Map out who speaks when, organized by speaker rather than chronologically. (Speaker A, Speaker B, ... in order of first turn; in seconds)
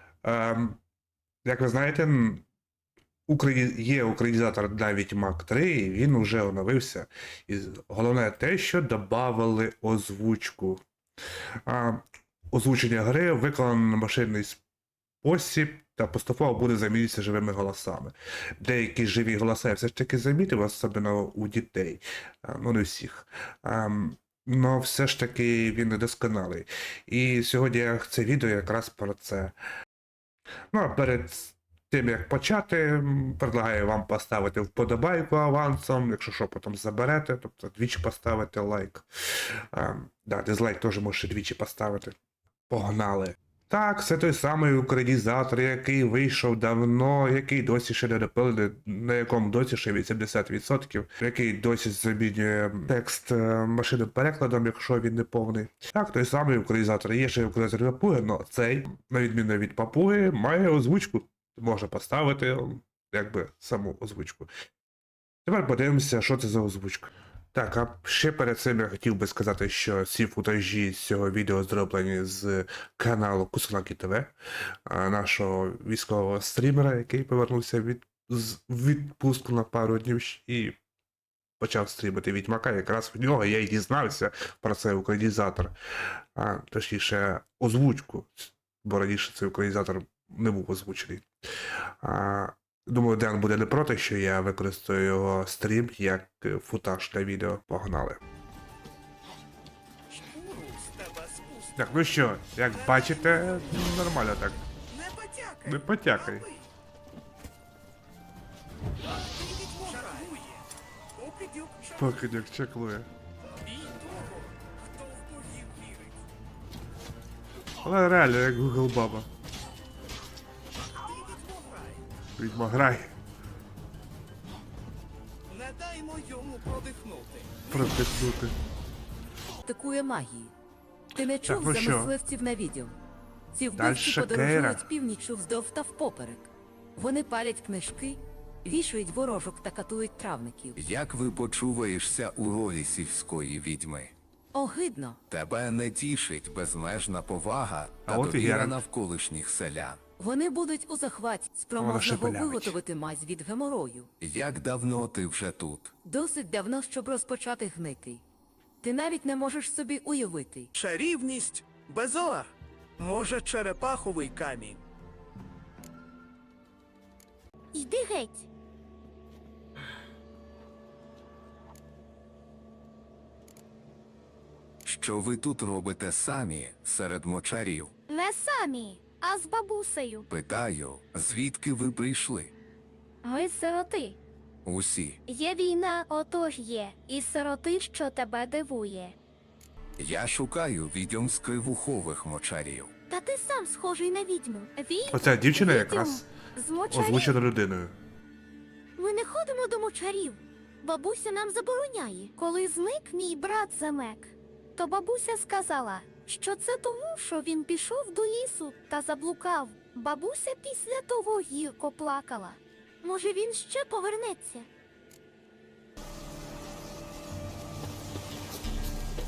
Speaker A: 0.2-0.8, 1.4-2.4, 3.3-10.8, 11.7-14.6, 15.2-29.5, 30.7-42.1, 42.7-64.5, 65.5-74.3, 74.9-80.8, 81.6-85.7, 86.4-91.3, 92.0-98.2, 101.8-104.6, 105.6-106.5, 111.9-113.1, 117.8-119.3, 122.4-123.1, 127.7-128.6, 131.4-132.1, 133.8-134.8, 148.1-148.8, 151.8-152.8, 195.1-196.3, 196.9-198.0
Speaker B: 100.3-101.7, 102.8-103.5, 104.9-106.5, 109.6-110.3, 111.2-112.1, 115.1-115.8, 125.5-127.5, 160.8-162.5, 163.0-164.8
Speaker C: 109.8-110.3, 125.7-126.6, 140.8-144.1, 145.3-150.0, 154.2-155.9, 174.8-177.9, 180.3-182.5, 184.7-185.2, 190.0-192.9
Speaker D: 129.6-130.5, 131.1-133.0, 133.5-140.8, 144.5-145.2, 150.2-154.1, 156.0-158.2, 158.8-160.7
Speaker E: 167.7-168.5, 178.1-180.3, 183.2-184.2, 185.3-189.2, 193.1-197.3, 199.0-214.7